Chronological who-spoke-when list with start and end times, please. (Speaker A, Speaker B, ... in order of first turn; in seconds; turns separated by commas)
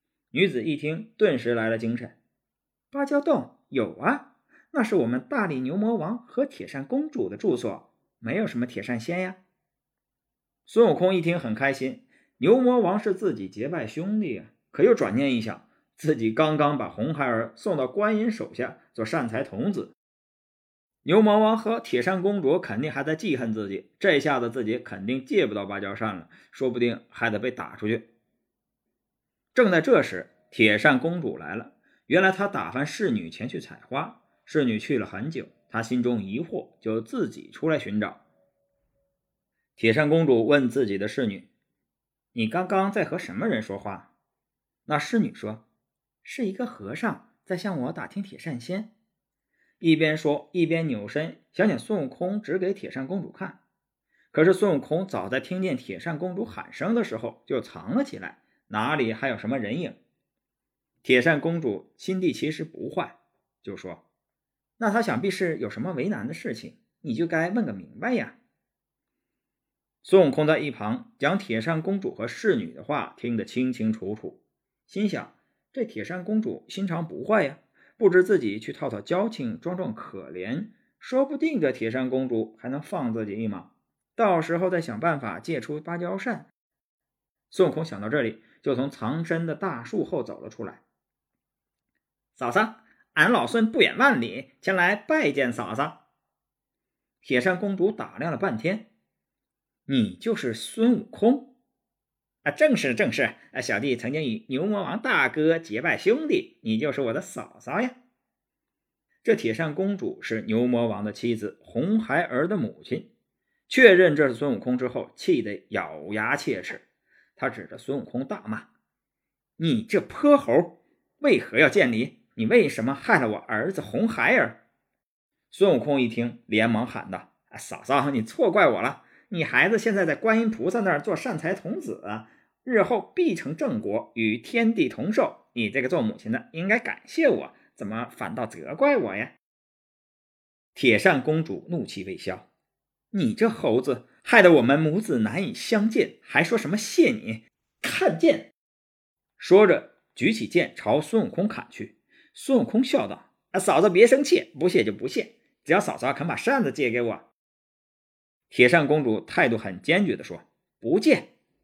Speaker A: 0.3-2.2, Speaker A: 2.9-9.4, Speaker A: 10.7-19.9, Speaker A: 21.0-28.1, Speaker A: 29.5-38.2, Speaker A: 39.8-41.5, Speaker A: 42.3-44.1, Speaker A: 44.9-45.6, Speaker A: 46.2-48.9, Speaker A: 49.8-53.6, Speaker A: 54.3-60.0, Speaker A: 61.0-64.0, Speaker A: 64.8-68.4, Speaker A: 70.0-86.5, Speaker A: 87.5-90.8, Speaker A: 92.3-96.0, Speaker A: 97.2-98.9, Speaker A: 99.9-101.5, Speaker A: 102.4-108.0, Speaker A: 109.2-113.1, Speaker A: 113.7-116.8, Speaker A: 117.4-118.7, Speaker A: 119.6-124.6, Speaker A: 125.5-139.4, Speaker A: 140.8-142.5, Speaker A: 143.1-148.5, Speaker A: 149.4-157.3, Speaker A: 158.5-161.3